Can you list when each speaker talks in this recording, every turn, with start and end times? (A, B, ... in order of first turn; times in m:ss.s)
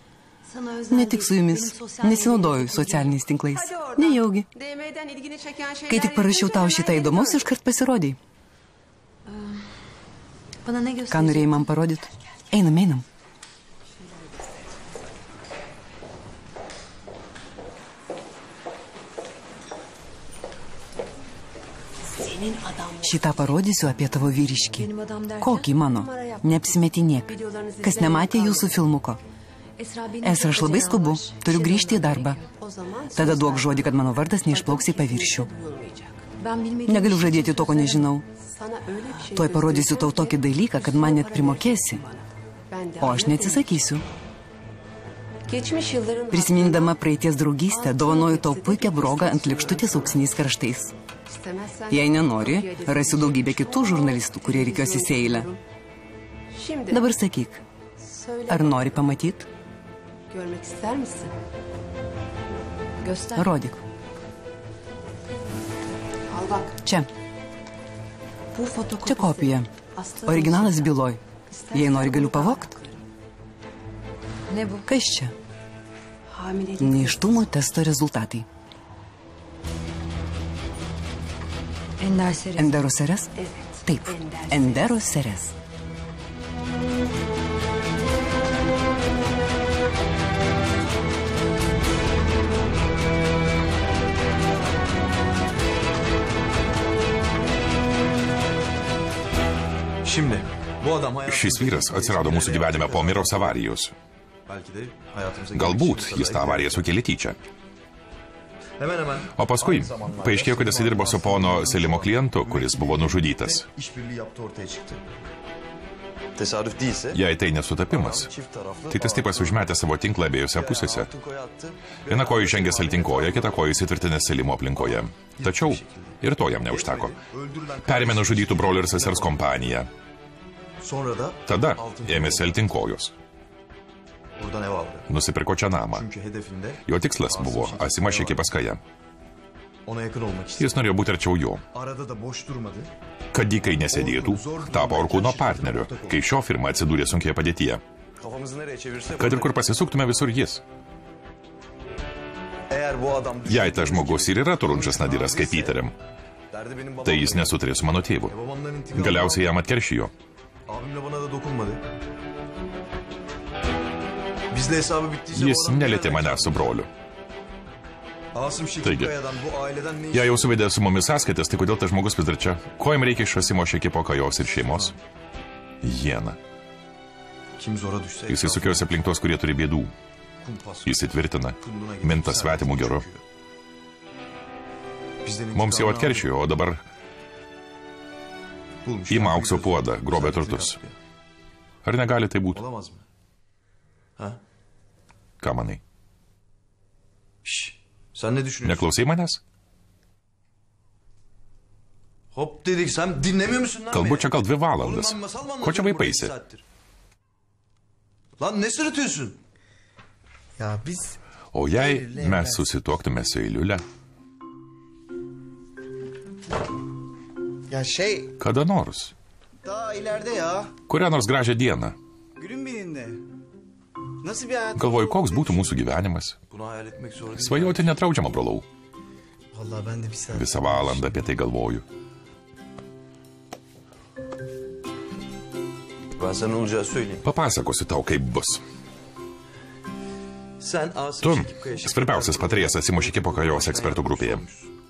0:00.4-0:07.4 A
0:00.9-0:04.5 B
0:05.9-0:08.2 B
0:09.2-0:09.6 A
0:10.6-0:11.7 A
0:11.1-0:13.0 B
0:22.1-0:23.6 A
0:23.0-0:29.2 B
0:24.7-0:28.8 A
0:29.8-0:43.8 A
0:30.2-0:32.4 B
0:33.1-0:35.5 B
0:36.8-0:38.2 B
0:39.3-0:42.0 B
0:43.0-0:44.0 B
0:45.5-0:47.0 A
0:46.3-0:50.9 B
0:47.7-0:50.2 A
0:51.3-0:55.6 A
0:51.9-0:55.5 B
0:56.5-0:57.1 A
0:56.9-0:57.6 B
0:58.0-0:59.1 A
0:58.5-0:59.5 B
1:00.3-1:01.3 A
1:03.0-1:03.5 A
1:03.3-1:03.8 B
1:06.3-1:06.8 A
1:06.8-1:07.1 B
1:08.5-1:11.0 A
1:09.0-1:09.7 B
1:10.2-1:11.2 B
1:11.5-1:13.0 A
1:11.7-1:12.7 B
1:14.5-1:14.9 A
1:14.8-1:15.3 B
1:16.3-1:17.6 A
1:16.8-1:18.4 B
1:22.0-1:25.0 A
1:22.5-1:23.3 B
1:23.8-1:25.5 B
1:40.0-1:43.6 C
1:41.2-1:43.9 D
1:44.5-1:46.9 C
1:45.5-1:47.4 D
1:48.8-1:55.0 C
1:49.3-1:53.6 D
1:56.4-1:57.2 C
1:57.1-1:58.3 D
1:57.9-1:59.6 C
1:58.9-2:01.1 D
2:00.5-2:03.7 C
2:02.1-2:07.2 D
2:04.8-2:09.4 C
2:07.8-2:09.9 D
2:10.8-2:12.6 C
2:11.5-2:13.1 D
2:14.4-2:15.1 C
2:15.1-2:16.0 D
2:15.9-2:18.4 C
2:16.8-2:18.8 D
2:19.8-2:20.8 C
2:20.6-2:21.6 D
2:21.7-2:22.9 C
2:23.3-2:27.8 D
2:23.9-2:26.2 C
2:28.2-2:29.6 C
2:29.2-2:30.6 D
2:32.7-2:35.8 C
2:33.4-2:35.9 D
2:36.5-2:37.6 C
2:37.0-2:38.3 D
2:38.3-2:39.5 C
2:38.9-2:40.1 D
2:40.7-2:41.8 C
2:44.5-2:46.7 C
2:45.3-2:46.9 D
2:48.3-2:50.5 C
2:48.8-2:49.1 D
2:50.1-2:55.0 D
2:54.6-2:55.0 C
2:55.8-2:56.4 D
2:57.6-2:58.9 C
2:58.3-2:59.9 D
3:00.4-3:03.2 C
3:00.8-3:03.0 D
3:05.2-3:06.3 C
3:05.5-3:06.8 D
3:08.8-3:10.9 C
3:09.1-3:10.8 D
3:11.8-3:12.6 D
3:12.5-3:13.0 C
3:15.4-3:15.8 D
3:17.4-3:18.9 C
3:18.6-3:19.4 D
3:22.3-3:26.6 C
3:23.9-3:26.3 D
3:28.4-3:29.4 C
3:30.6-3:31.2 E
3:31.5-3:33.8 D
3:31.7-3:32.6 E
3:37.7-3:38.3 E
3:38.4-3:39.1 D
3:39.6-3:40.7 E
3:40.9-3:42.0 D
3:42.4-3:43.2 E
3:44.2-3:45.8 E
3:44.7-3:46.4 D
3:46.5-3:47.9 C
3:47.3-3:48.6 D
3:49.5-3:51.1 E
3:50.3-3:51.8 D
3:56.2-3:57.2 C
3:57.2-3:58.6 D
4:00.6-4:04.7 C
4:01.2-4:04.4 D